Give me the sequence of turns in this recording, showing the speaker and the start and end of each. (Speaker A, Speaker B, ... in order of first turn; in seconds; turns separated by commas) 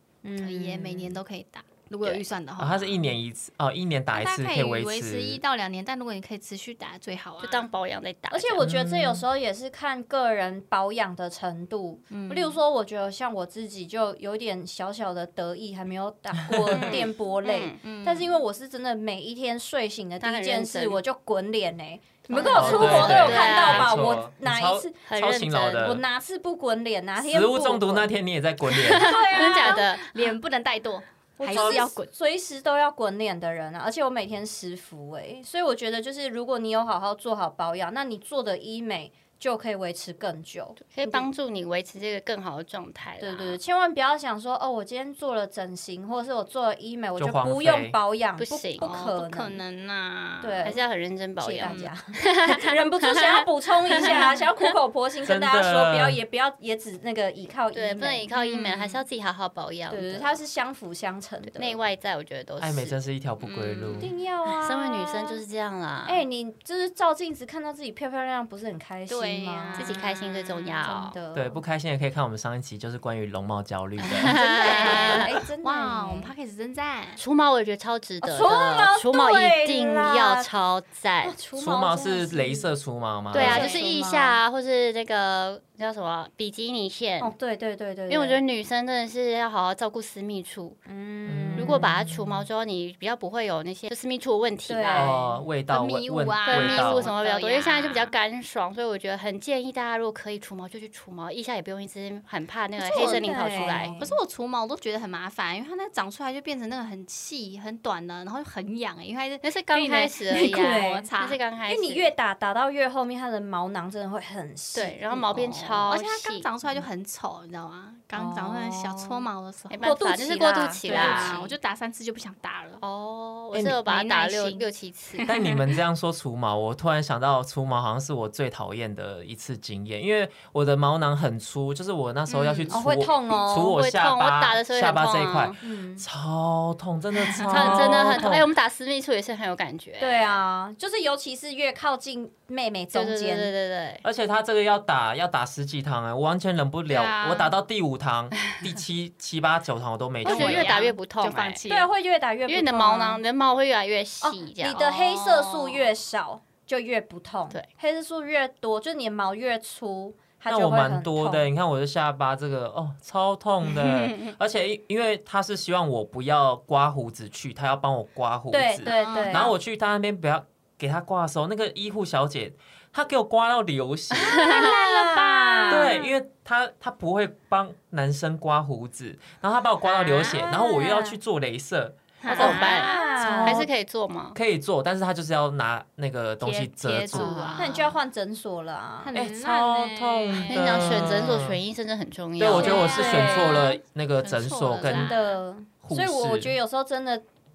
Speaker A: 0.2-1.2, Speaker B: 0.4-3.1, Speaker C: 2.6-5.4, Speaker B: 4.1-7.7, Speaker D: 7.4-8.7, Speaker A: 8.3-28.1, Speaker C: 8.6-9.2, Speaker B: 12.1-12.6, Speaker C: 16.5-16.9, Speaker D: 16.7-17.8, Speaker B: 17.8-18.4, Speaker D: 20.2-21.0, Speaker D: 22.3-24.1, Speaker B: 22.3-23.4, Speaker C: 22.5-26.0, Speaker D: 25.0-25.8, Speaker C: 27.2-29.2, Speaker D: 28.7-30.1, Speaker A: 28.9-29.8, Speaker B: 29.3-32.1, Speaker A: 31.4-41.2, Speaker C: 31.5-31.9, Speaker D: 40.8-43.6, Speaker A: 43.2-49.6, Speaker C: 47.2-48.0, Speaker D: 48.4-49.1, Speaker B: 48.9-50.7, Speaker A: 50.4-50.8, Speaker D: 50.6-54.3, Speaker A: 51.4-58.3, Speaker B: 51.6-51.9, Speaker B: 54.0-54.4, Speaker C: 55.2-56.2, Speaker D: 57.7-60.4, Speaker B: 58.3-59.0, Speaker A: 59.9-61.8, Speaker D: 61.5-63.0, Speaker C: 62.6-64.1, Speaker B: 63.4-64.1, Speaker A: 64.0-65.4, Speaker D: 64.5-66.2, Speaker A: 66.0-70.0, Speaker B: 69.1-70.9, Speaker D: 69.8-71.2, Speaker A: 70.8-71.6, Speaker C: 71.3-74.4, Speaker D: 74.0-75.3, Speaker A: 74.3-76.3, Speaker B: 74.4-77.2, Speaker D: 77.2-81.3, Speaker A: 78.2-80.5, Speaker A: 81.2-82.7, Speaker C: 81.5-83.8, Speaker A: 83.3-84.4, Speaker D: 83.3-87.3, Speaker A: 87.2-88.4, Speaker D: 88.1-90.8, Speaker A: 90.9-92.0, Speaker C: 91.2-92.4, Speaker D: 91.5-95.2, Speaker A: 94.7-95.4, Speaker C: 94.9-97.1, Speaker B: 95.7-98.1, Speaker D: 96.4-104.0, Speaker A: 102.8-104.2, Speaker B: 102.9-103.3, Speaker B: 104.0-111.4, Speaker D: 109.4-112.1, Speaker A: 110.5-111.1, Speaker A: 111.7-115.9, Speaker D: 114.7-116.5, Speaker B: 115.9-119.8, Speaker A: 118.1-119.3, Speaker D: 119.7-121.5, Speaker A: 119.8-121.5, Speaker B: 120.8-122.8, Speaker D: 122.8-125.2, Speaker B: 123.6-125.8, Speaker C: 125.2-138.5, Speaker B: 132.3-132.8, Speaker A: 132.7-133.8, Speaker D: 133.5-135.6, Speaker A: 135.6-136.1, Speaker B: 137.3-137.8, Speaker D: 137.5-140.4, Speaker A: 137.6-138.2, Speaker A: 140.0-143.5, Speaker D: 142.9-144.0, Speaker C: 144.0-150.8, Speaker B: 146.9-147.5, Speaker B: 150.2-151.9, Speaker D: 150.2-151.6, Speaker A: 151.7-153.2, Speaker D: 152.5-154.8, Speaker A: 154.2-161.4, Speaker B: 154.8-155.9, Speaker C: 160.5-174.4, Speaker D: 163.8-164.3, Speaker A: 168.5-169.5, Speaker B: 168.9-169.5, Speaker D: 174.2-175.9, Speaker A: 174.2-176.1, Speaker C: 175.7-182.5, Speaker B: 179.9-180.4, Speaker A: 180.3-181.2, Speaker B: 182.2-183.7, Speaker A: 182.3-183.7, Speaker D: 182.3-184.4, Speaker C: 184.3-187.5, Speaker B: 186.4-187.9, Speaker D: 187.1-187.9, Speaker A: 187.6-189.1, Speaker B: 189.0-191.2, Speaker C: 189.1-191.6, Speaker D: 190.5-193.2, Speaker C: 192.4-195.2, Speaker B: 192.5-195.4, Speaker A: 192.6-193.7, Speaker A: 194.8-197.2, Speaker C: 195.8-196.6